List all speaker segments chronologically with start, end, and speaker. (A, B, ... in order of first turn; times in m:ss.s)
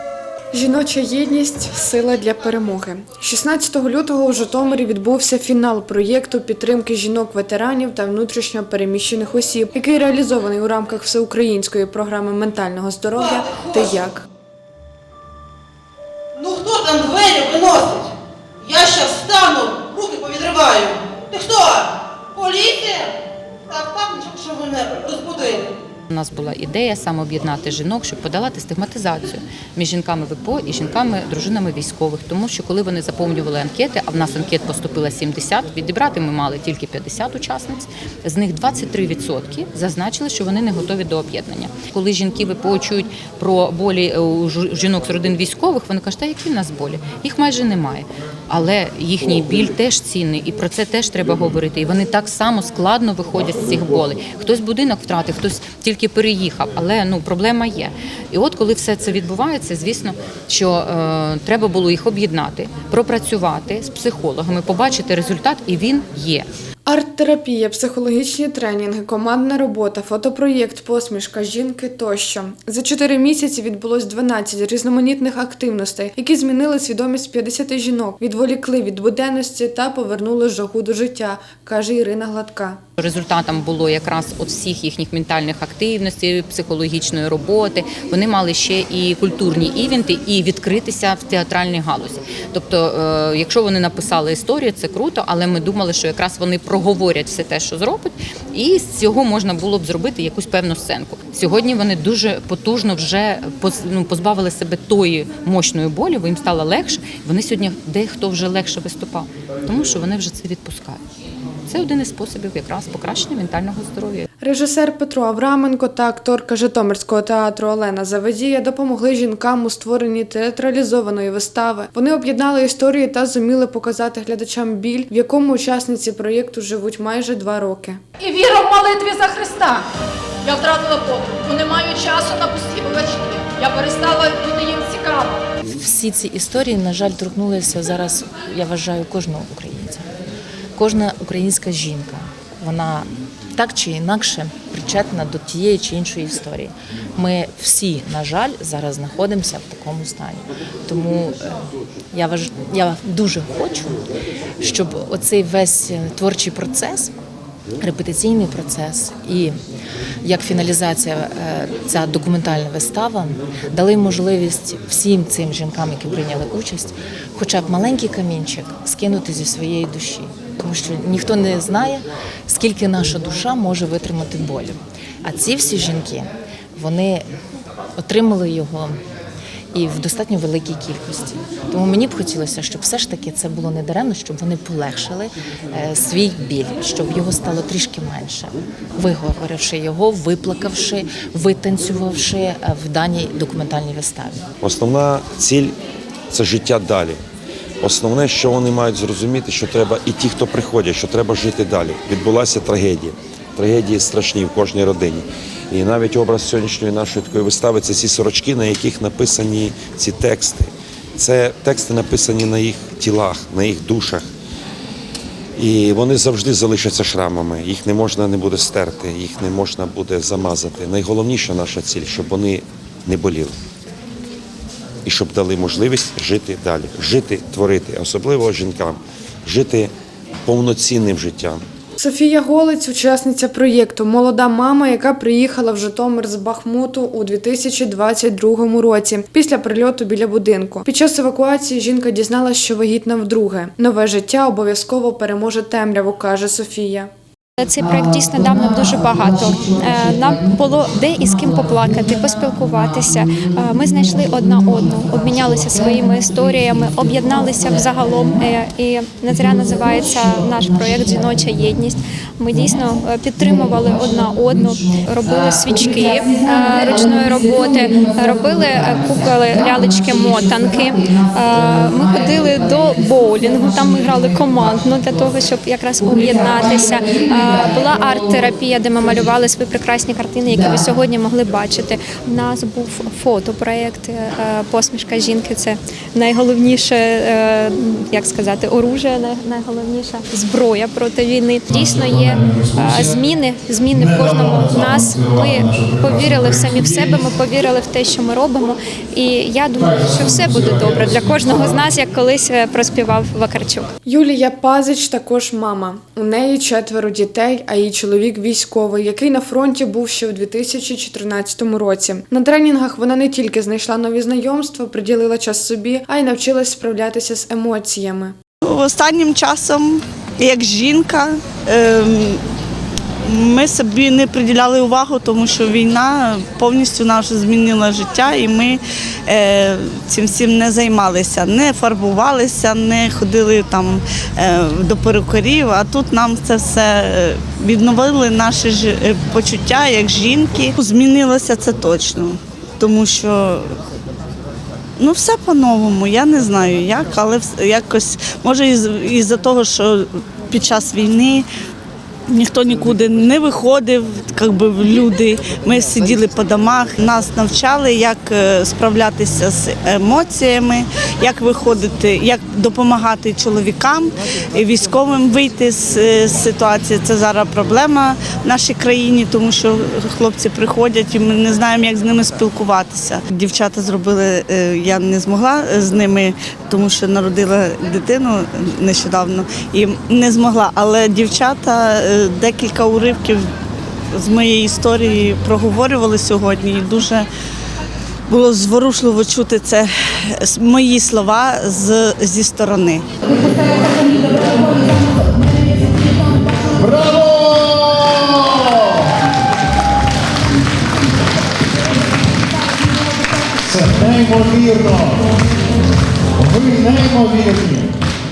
0:00.5-0:14.2 A
0:13.2-0:13.9 B
0:16.4-0:18.1 B
0:18.6-0:23.1 B
0:23.7-0:25.7 B
0:26.1-1:06.5 C
1:06.9-1:22.8 A
1:23.0-1:51.0 C
1:51.7-1:54.3 C
1:54.4-2:08.0 A
2:08.2-2:09.8 D
2:10.4-2:15.4 D
2:15.7-2:20.1 E
2:20.8-2:34.0 E
2:34.6-2:37.1 E
2:37.8-2:39.6 E
2:40.2-2:57.3 E
2:58.0-2:59.0 E
2:59.7-3:14.5 E
3:14.6-3:15.8 F
3:16.3-3:17.2 F
3:17.8-3:34.3 F
3:35.6-3:43.6 F
3:45.0-3:49.9 F
3:50.4-3:51.6 F
3:52.0-4:07.1 A
4:07.6-5:03.9 G
4:08.9-4:10.5 E
4:09.7-4:10.1 C
4:11.5-4:11.8 E
4:11.9-4:13.5 C
4:12.6-4:16.1 E
4:16.1-4:17.1 C
4:17.3-4:18.2 E
4:19.5-4:20.0 E
4:23.5-4:24.6 C
4:25.2-4:35.3 C
4:36.0-4:39.3 C
4:40.5-4:40.9 C
4:51.7-4:53.2 H
4:53.9-4:57.4 H
4:59.8-5:01.8 H
5:04.1-5:18.4 A
5:18.6-5:22.4 I
5:23.2-5:43.7 I
5:45.0-5:51.5 I
5:52.3-6:23.5 I
6:24.1-6:27.3 I
6:28.3-6:33.1 I
6:44.0-6:45.0 H
6:46.5-6:47.8 H